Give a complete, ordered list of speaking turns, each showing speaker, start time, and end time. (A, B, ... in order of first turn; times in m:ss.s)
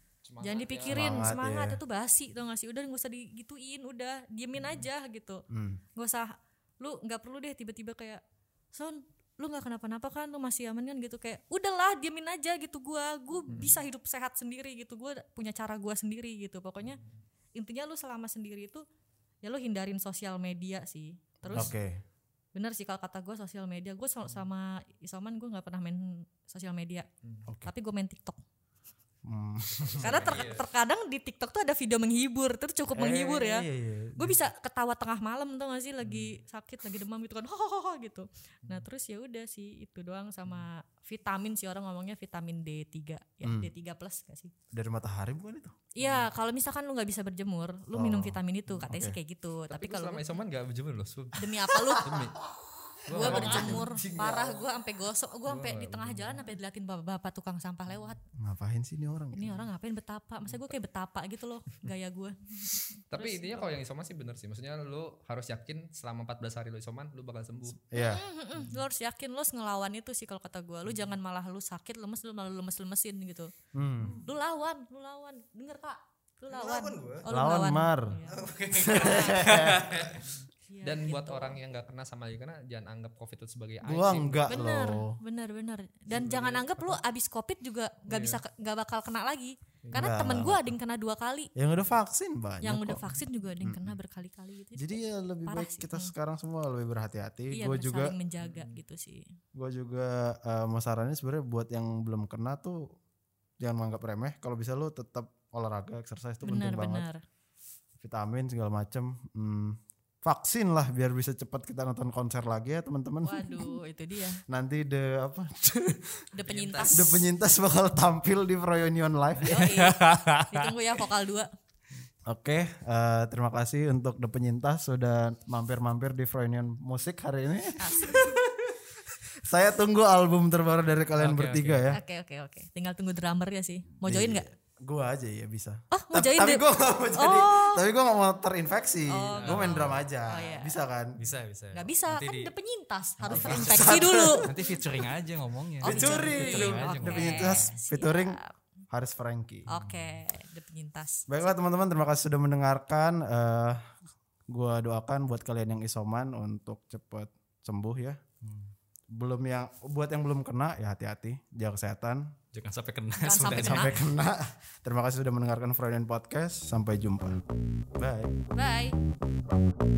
0:00.2-0:01.4 A
0:00.4-0:05.4 B
0:00.9-0:01.8 C
0:04.6-0:04.9 A
0:05.5-0:05.8 C
0:06.0-0:08.2 B
0:08.7-0:17.0 B
0:13.5-0:13.7 A
0:16.8-0:17.1 A
0:17.6-0:18.8 B
0:19.4-0:21.8 B
0:21.5-0:22.0 C
0:22.6-0:27.1 B
0:27.7-0:28.4 B
0:29.2-0:30.2 C
0:29.9-0:30.7 A
0:30.0-0:33.6 B
0:33.0-0:34.4 C
0:34.2-0:44.5 B
0:36.0-0:36.3 A
0:43.4-0:43.7 C
0:44.7-0:45.8 C
0:46.0-0:50.4 B
0:46.0-0:46.3 A
0:47.9-0:49.2 C
0:49.7-0:52.4 A
0:51.4-0:52.3 B
0:51.8-0:52.5 C
0:53.1-0:53.9 A
0:53.1-0:54.6 C
0:53.1-0:58.2 B
0:55.5-0:56.5 A
0:58.4-0:59.6 C
0:59.4-1:03.8 B
1:03.1-1:07.8 A
1:07.9-1:08.2 C
1:08.0-1:13.5 B
1:13.8-1:14.2 C
1:14.2-1:18.4 B
1:16.5-1:17.3 D
1:17.3-1:18.2 C
1:18.3-1:20.4 D
1:18.7-1:20.0 C
1:19.0-1:19.5 B
1:20.2-1:24.6 A
1:20.7-1:21.6 B
1:23.8-1:25.2 C
1:24.5-1:31.5 B
1:26.1-1:27.0 A
1:28.1-1:28.4 A
1:29.8-1:30.5 A
1:29.9-1:30.7 C
1:31.6-1:33.0 C
1:32.6-1:36.1 B
1:33.6-1:34.0 C
1:34.8-1:38.1 C
1:37.5-1:39.2 B
1:38.4-1:38.8 A
1:39.5-1:42.9 C
1:43.6-1:47.1 C
1:46.4-1:47.2 B
1:48.0-1:53.7 C
1:53.2-1:54.4 B
1:54.5-1:56.2 C
1:56.3-1:57.3 B
1:56.4-1:57.0 D
1:56.9-1:59.6 C
1:59.4-2:00.7 D
1:59.4-2:01.5 B
2:02.3-2:08.7 C
2:07.8-2:08.4 B
2:09.4-2:12.0 C
2:11.2-2:12.0 D
2:11.9-2:14.4 B
2:14.0-2:21.2 C
2:15.9-2:17.8 B
2:19.1-2:20.8 B
2:19.5-2:19.9 D
2:21.2-2:22.5 D
2:21.7-2:24.5 B
2:23.2-2:24.5 C
2:23.3-2:27.7 D
2:25.8-2:28.4 C
2:25.8-2:28.5 B
2:28.9-2:29.7 C
2:29.7-2:31.3 B
2:29.8-2:30.2 D
2:31.3-2:33.9 C
2:34.5-2:38.2 C
2:39.1-2:42.4 C
2:42.5-2:44.0 D
2:43.2-2:43.9 B
2:43.5-2:47.4 C
2:48.0-2:48.4 C
2:48.5-2:49.0 B